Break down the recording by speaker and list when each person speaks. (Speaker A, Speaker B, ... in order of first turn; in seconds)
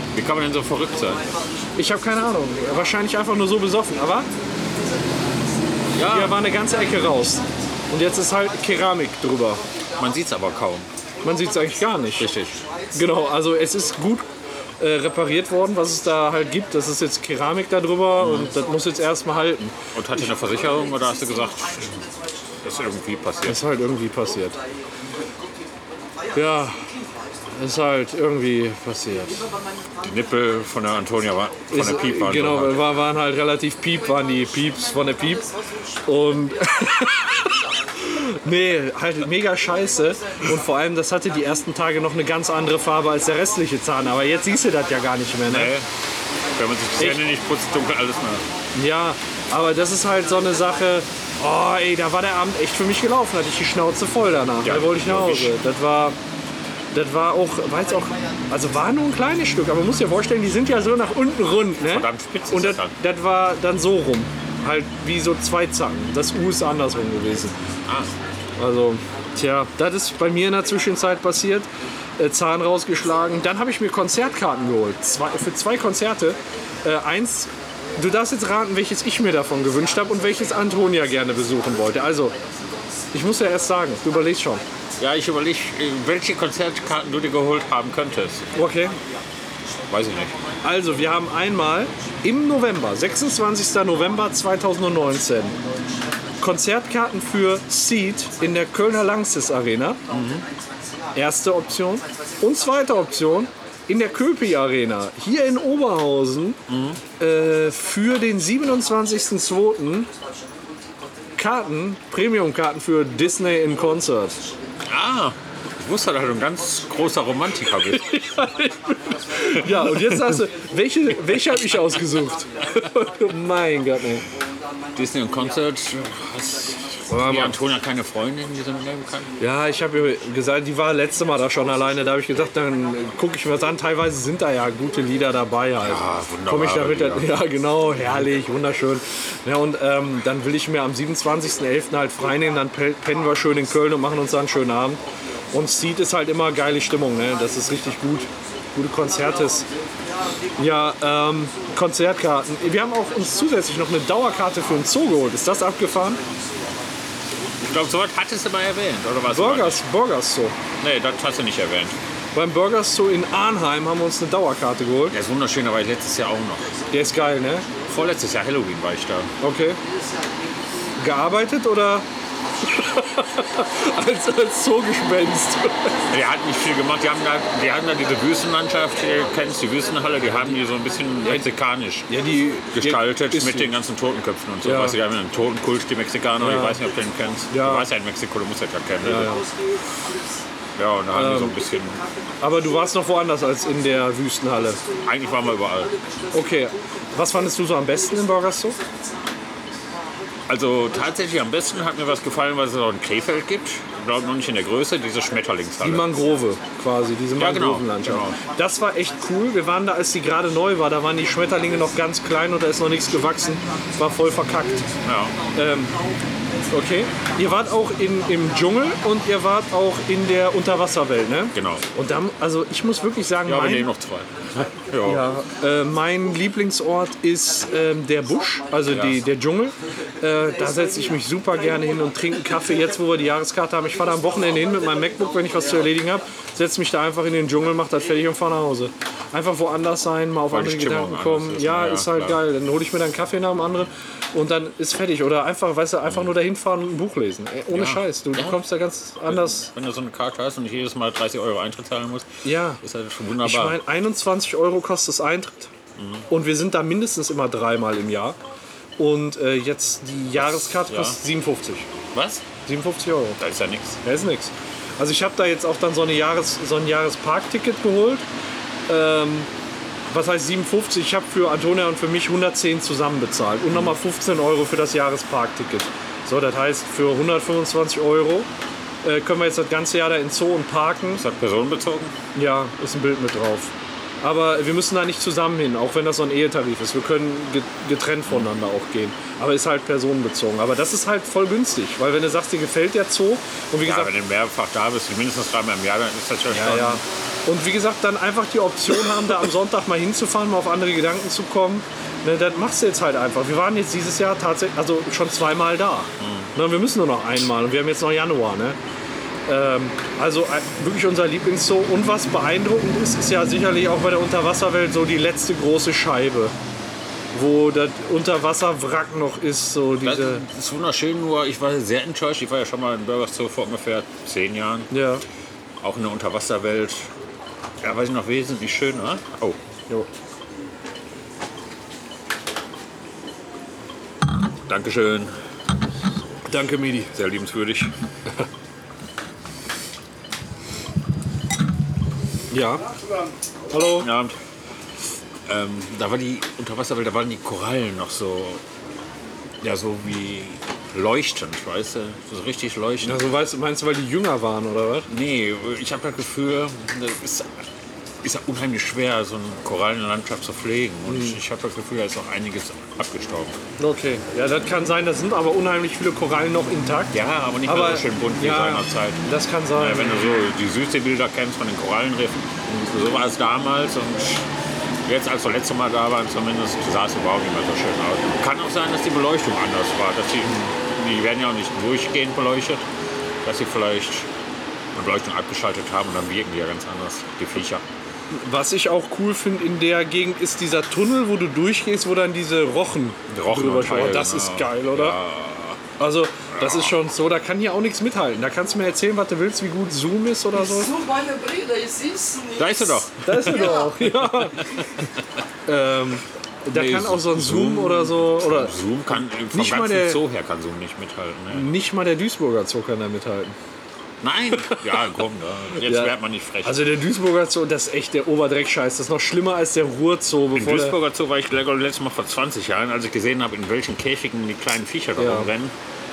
Speaker A: 0.1-1.2, 5.9-6.4, 10.0-10.9, 12.2-12.6, 18.2-18.5, 19.9-22.0, 22.6-23.6, 30.0-32.9, 45.5-45.9, 46.5-48.4, 54.6-55.5, 61.7-62.9, 67.9-68.1, 85.0-88.5, 89.9-90.5, 100.1-100.5, 106.7-107.0, 114.8-118.2, 119.5-120.4, 125.0-129.3, 135.8-137.4, 157.6-159.8, 160.8-162.0, 165.1-166.7, 167.9-169.3, 176.1-182.2, 182.7-189.4, 190.8-192.0, 195.0-195.9, 200.5-206.2, 207.4-208.4, 215.0-215.3, 221.5-221.9, 223.4-225.3, 228.9-229.2, 240.5-242.4, 247.7-248.6, 249.2-252.3, 252.8-253.8, 256.0-256.3, 260.4-261.2, 262.1-262.5, 263.4-264.0, 281.1-282.1, 293.8-297.0, 306.2-306.5, 320.0-324.9, 325.8-327.1, 327.8-329.6, 334.7-335.3, 337.1-337.9, 344.0-344.4, 345.5-348.6, 349.6-353.2, 355.1-357.6, 358.2-363.6, 367.1-369.2, 369.8-374.5, 375.0-382.9, 383.4-384.3, 384.9-387.8, 393.3-395.8, 396.5-397.0, 402.6-403.9, 406.7-411.7, 414.2-416.9, 420.5-425.7
Speaker B: 0.9-3.1, 3.9-17.1, 18.1-27.9, 29.2-32.8, 33.7-38.6, 39.3-48.8, 49.7-51.0, 57.6-62.8, 66.5-71.5, 72.6-76.8, 77.5-85.4, 86.4-105.6, 107.2-111.8, 113.2-114.9, 116.0-135.5, 138.2-138.9, 141.2-145.9, 146.8-157.8, 160.8-161.5, 166.6-168.1, 169.8-171.3, 172.3-173.8, 175.7-182.7, 186.6-187.0, 189.0-190.5, 191.4-207.4, 208.0-219.5, 223.2-223.8, 224.3-226.5, 227.4-229.4, 230.2-236.2, 400.5-404.0
Speaker C: 1.8-4.3, 6.0-9.6, 11.2-12.3, 12.9-19.7, 23.4-24.6, 26.3-26.8, 27.5-29.5, 31.7-35.5, 36.0-45.8, 47.0-47.2, 48.7-56.2, 56.9-67.5, 68.6-82.3, 83.1-84.6, 88.5-89.0, 90.6-95.5, 96.4-100.0, 101.1-106.6, 107.2-110.1, 111.4-114.4, 118.0-124.3, 127.1-127.6, 129.4-149.7, 150.6-156.2, 159.3-160.6, 162.3-165.2, 166.9-167.7, 169.4-169.8, 171.0-172.1, 172.6-176.0, 181.2-181.5, 182.1-183.8, 184.6-185.0, 186.4-186.8, 187.5-187.9, 189.0-189.5, 191.1-191.6, 192.4-194.8, 196.3-198.8, 205.8-214.9, 215.5-216.0, 216.7-223.9, 225.0-249.7, 252.4-252.8, 253.4-255.7, 256.3-258.4, 259.0-261.9, 262.6-263.4, 264.0-268.2, 268.9-269.5, 270.1-278.5, 279.0-281.2, 282.4-294.1, 296.5-308.8, 309.5-316.5, 317.3-320.4, 324.9-325.2, 336.5-337.1, 342.5-342.9, 343.7-344.1, 353.0-355.1, 361.1-361.4, 363.8-370.2, 388.3-395.2, 396.0-401.0, 403.2-404.6, 405.7-408.8, 409.5-410.2, 411.5-413.5, 415.8-421.0, 425.2-425.5